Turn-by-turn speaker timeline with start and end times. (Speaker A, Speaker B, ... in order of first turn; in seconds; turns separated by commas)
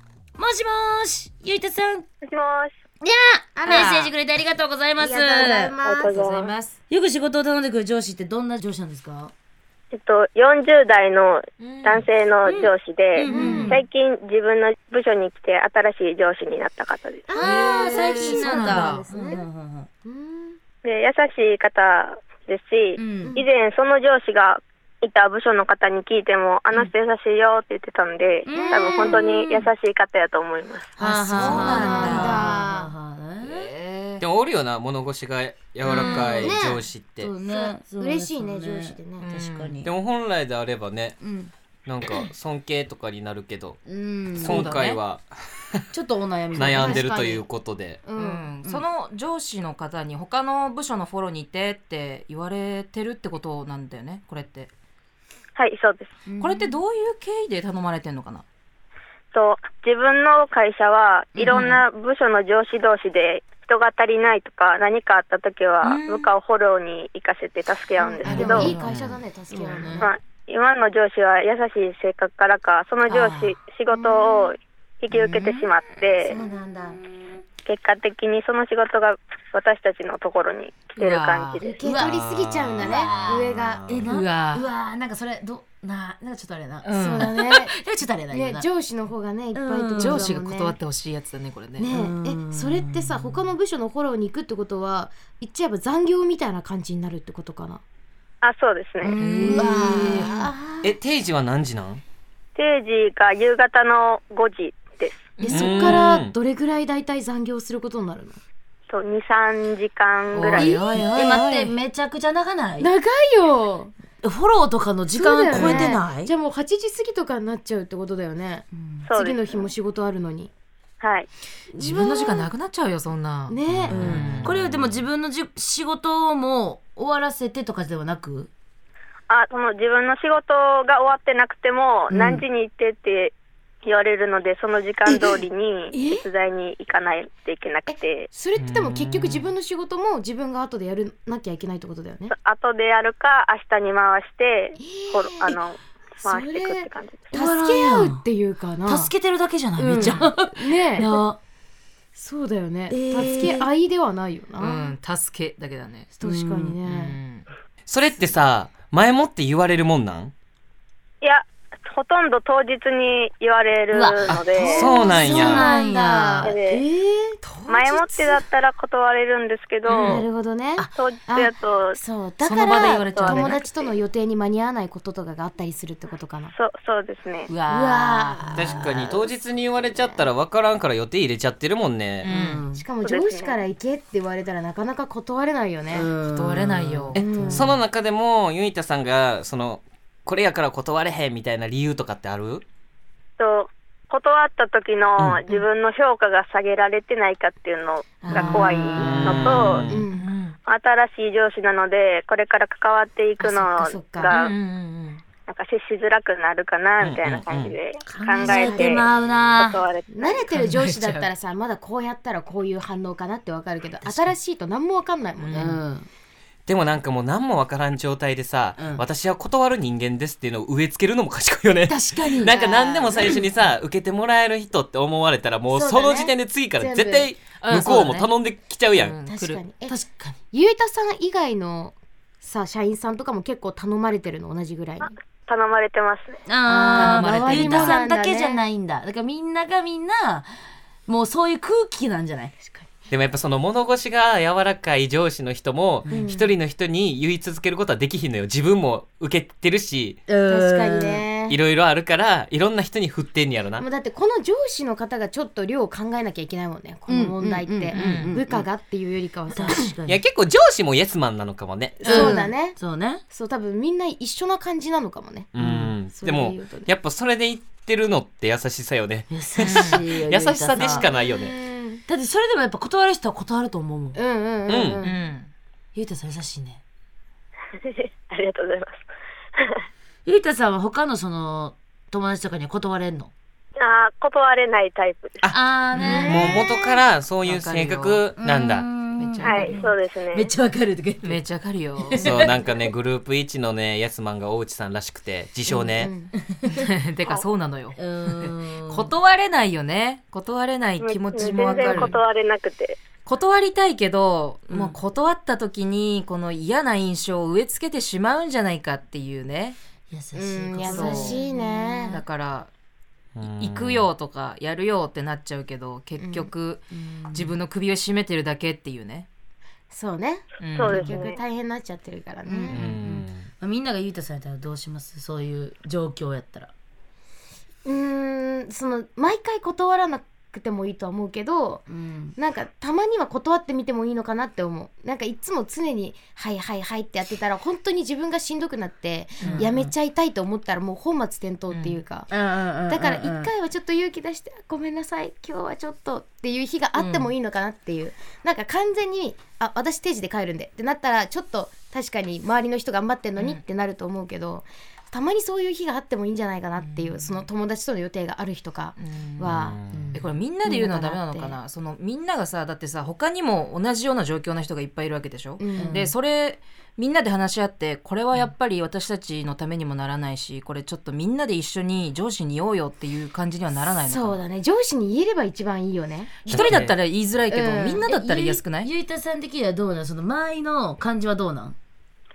Speaker A: 0.4-2.1, Speaker B: 2.2-2.7, Speaker A: 3.0-5.8, Speaker C: 3.6-3.9, Speaker D: 3.7-4.1, Speaker C: 5.0-6.2, Speaker B: 5.8-6.5, Speaker D: 6.1-6.8, Speaker A: 6.9-9.3, Speaker B: 9.9-17.3, Speaker D: 11.6-12.1, Speaker A: 12.5-13.8, Speaker D: 13.2-13.7, Speaker C: 13.2-13.8, Speaker A: 17.3-19.9, Speaker C: 17.3-19.4, Speaker D: 17.4-19.0, Speaker C: 20.0-20.6, Speaker B: 20.8-30.9, Speaker A: 23.0-23.4, Speaker A: 28.4-29.3, Speaker C: 28.5-29.5, Speaker A: 31.0-33.7, Speaker C: 31.0-32.9, Speaker D: 31.2-32.5, Speaker B: 31.5-31.9, Speaker D: 33.4-34.2, Speaker E: 34.2-37.3, Speaker A: 35.8-36.6, Speaker C: 35.9-36.8, Speaker A: 37.2-39.9, Speaker C: 37.4-39.3, Speaker D: 39.2-39.8, Speaker E: 39.8-41.2, Speaker A: 41.2-41.5, Speaker E: 41.9-43.8, Speaker A: 43.9-44.7, Speaker E: 44.3-45.8, Speaker D: 44.4-45.0, Speaker A: 45.9-47.1, Speaker E: 46.5-48.0, Speaker C: 46.6-47.5, Speaker C: 48.0-48.5, Speaker D: 48.1-54.7, Speaker B: 55.6-56.1, Speaker A: 56.3-56.8, Speaker D: 56.4-58.4, Speaker B: 59.3-68.7, Speaker A: 61.4-61.8, Speaker C: 68.0-70.1, Speaker A: 68.2-70.1, Speaker D: 68.2-68.9, Speaker B: 70.0-76.4, Speaker A: 73.1-73.6, Speaker C: 73.9-74.5, Speaker C: 75.1-75.7, Speaker A: 76.2-77.3, Speaker B: 77.7-81.9, Speaker D: 81.0-81.7, Speaker C: 81.6-84.0, Speaker A: 81.8-82.2, Speaker E: 81.9-84.1, Speaker A: 82.8-88.7, Speaker D: 84.1-84.7, Speaker D: 86.8-87.3, Speaker C: 86.9-87.8, Speaker C: 88.3-90.8, Speaker A: 89.5-90.3, Speaker D: 90.0-91.9, Speaker C: 91.8-97.8, Speaker A: 91.9-93.4, Speaker B: 98.4-99.2, Speaker A: 99.0-100.5, Speaker D: 99.2-100.3, Speaker C: 99.2-100.9, Speaker E: 100.8-102.0, Speaker B: 102.6-105.3, Speaker D: 105.4-106.0, Speaker C: 105.4-108.4, Speaker E: 105.5-106.3, Speaker B: 108.9-110.8, Speaker D: 110.3-111.8, Speaker A: 110.5-112.9, Speaker C: 112.8-113.9, Speaker A: 114.2-116.3, Speaker C: 115.1-120.5, Speaker D: 115.5-115.9, Speaker A: 118.8-119.0, Speaker B: 119.0-119.5, Speaker B: 121.0-121.3, Speaker C: 121.7-122.5, Speaker D: 121.8-124.5, Speaker C: 123.5-124.0, Speaker E: 123.7-125.0, Speaker A: 123.9-128.5, Speaker B: 129.3-133.3, Speaker C: 132.1-132.4, Speaker B: 133.8-138.3, Speaker C: 135.9-136.2, Speaker C: 137.9-142.3, Speaker E: 138.6-139.5, Speaker B: 142.3-147.2, Speaker C: 144.8-145.6, Speaker C: 146.2-149.1, Speaker A: 147.3-148.2, Speaker A: 148.8-151.4, Speaker C: 149.8-151.1, Speaker C: 152.2-154.9, Speaker A: 152.9-153.7, Speaker D: 154.6-156.1, Speaker A: 156.2-156.8, Speaker C: 156.2-157.2, Speaker D: 156.8-157.5, Speaker E: 157.9-160.3, Speaker B: 161.2-164.9, Speaker A: 163.9-166.9, Speaker E: 164.3-165.7, Speaker C: 164.8-167.3, Speaker B: 166.4-166.8, Speaker D: 167.4-168.4, Speaker B: 167.7-170.2, Speaker A: 169.9-170.2, Speaker C: 169.9-176.5, Speaker B: 170.9-172.0, Speaker D: 172.4-173.6, Speaker B: 172.9-173.9, Speaker B: 176.5-177.5, Speaker D: 177.5-178.2, Speaker C: 177.7-179.3, Speaker A: 177.7-178.5, Speaker E: 178.6-182.3, Speaker C: 179.9-180.2, Speaker D: 182.2-182.6, Speaker A: 182.3-182.8, Speaker C: 182.7-186.1, Speaker B: 183.0-183.6, Speaker A: 185.9-187.8, Speaker D: 186.3-187.2, Speaker C: 187.1-187.8, Speaker E: 187.2-192.6, Speaker B: 193.4-199.8, Speaker E: 195.2-195.4, Speaker C: 198.2-200.3, Speaker D: 198.3-198.6, Speaker A: 198.6-199.2, Speaker E: 198.9-200.1, Speaker D: 199.9-200.6, Speaker B: 200.7-204.5, Speaker C: 203.4-204.3, Speaker D: 204.2-205.2, Speaker B: 205.5-209.0, Speaker E: 207.0-207.8, Speaker A: 208.1-209.8, Speaker C: 208.6-208.9, Speaker B: 209.6-210.4, Speaker C: 210.1-215.8, Speaker D: 210.5-211.3, Speaker A: 214.0-214.3, Speaker D: 215.4-215.8, Speaker A: 215.5-216.1, Speaker E: 216.7-229.2, Speaker A: 218.8-219.0, Speaker A: 221.9-222.6, Speaker C: 222.4-223.3, Speaker C: 225.7-227.3, Speaker D: 227.6-228.3, Speaker D: 228.9-229.6, Speaker C: 229.2-230.0, Speaker A: 229.9-230.4, Speaker C: 230.5-235.1, Speaker B: 235.0-236.3, Speaker A: 236.5-240.6, Speaker C: 236.7-238.6, Speaker D: 236.8-238.0, Speaker A: 241.1-242.7, Speaker E: 243.1-250.2, Speaker C: 246.1-246.6, Speaker A: 250.3-251.2, Speaker C: 250.5-251.6, Speaker E: 251.5-253.9, Speaker C: 253.8-259.9, Speaker A: 257.1-258.7, Speaker D: 257.9-258.4, Speaker A: 259.5-260.2, Speaker E: 260.1-262.2, Speaker C: 262.0-262.8, Speaker A: 262.0-263.2, Speaker C: 263.3-265.5, Speaker E: 265.6-271.5, Speaker A: 265.6-265.9, Speaker C: 266.1-266.9, Speaker A: 269.3-271.1, Speaker D: 269.6-270.0, Speaker C: 270.9-272.0, Speaker A: 272.1-274.2, Speaker C: 274.1-275.2, Speaker E: 274.7-275.0, Speaker D: 275.0-275.5, Speaker A: 275.9-276.8, Speaker B: 277.8-279.1, Speaker B: 279.6-279.8, Speaker A: 280.2-283.3, Speaker B: 283.8-285.4, Speaker A: 285.5-286.6, Speaker D: 285.9-286.6, Speaker E: 286.1-288.9, Speaker D: 287.4-288.2, Speaker A: 288.4-291.4, Speaker D: 289.2-289.9, Speaker B: 289.4-290.5, Speaker D: 291.2-292.4, Speaker A: 292.0-292.6, Speaker E: 292.1-296.1, Speaker C: 295.7-296.3, Speaker D: 296.6-302.2, Speaker A: 298.0-299.1, Speaker B: 301.0-303.0, Speaker C: 301.6-302.1, Speaker D: 303.2-309.8, Speaker A: 304.7-305.0, Speaker A: 310.1-311.9, Speaker C: 310.3-312.2, Speaker D: 310.9-312.7, Speaker E: 313.4-314.1, Speaker D: 313.4-319.3, Speaker C: 316.2-316.5, Speaker A: 316.9-317.6, Speaker C: 319.9-322.8, Speaker D: 320.6-321.2, Speaker B: 320.7-321.4, Speaker A: 322.5-326.7, Speaker E: 322.7-323.4, Speaker C: 327.9-331.9, Speaker A: 331.9-332.4, Speaker C: 332.4-342.3, Speaker D: 339.4-339.7, Speaker A: 339.4-339.9, Speaker D: 341.7-342.0, Speaker A: 342.3-343.5, Speaker C: 342.9-359.8, Speaker D: 347.0-347.3, Speaker D: 353.4-353.6, Speaker D: 356.8-357.4, Speaker D: 359.0-359.6, Speaker E: 359.5-360.1, Speaker A: 359.9-360.2, Speaker D: 360.1-374.4, Speaker C: 360.6-361.6, Speaker C: 365.6-366.0, Speaker A: 365.8-366.1, Speaker C: 374.0-376.5, Speaker D: 376.5-378.9, Speaker E: 376.5-376.9, Speaker C: 377.5-378.1, Speaker A: 378.1-381.8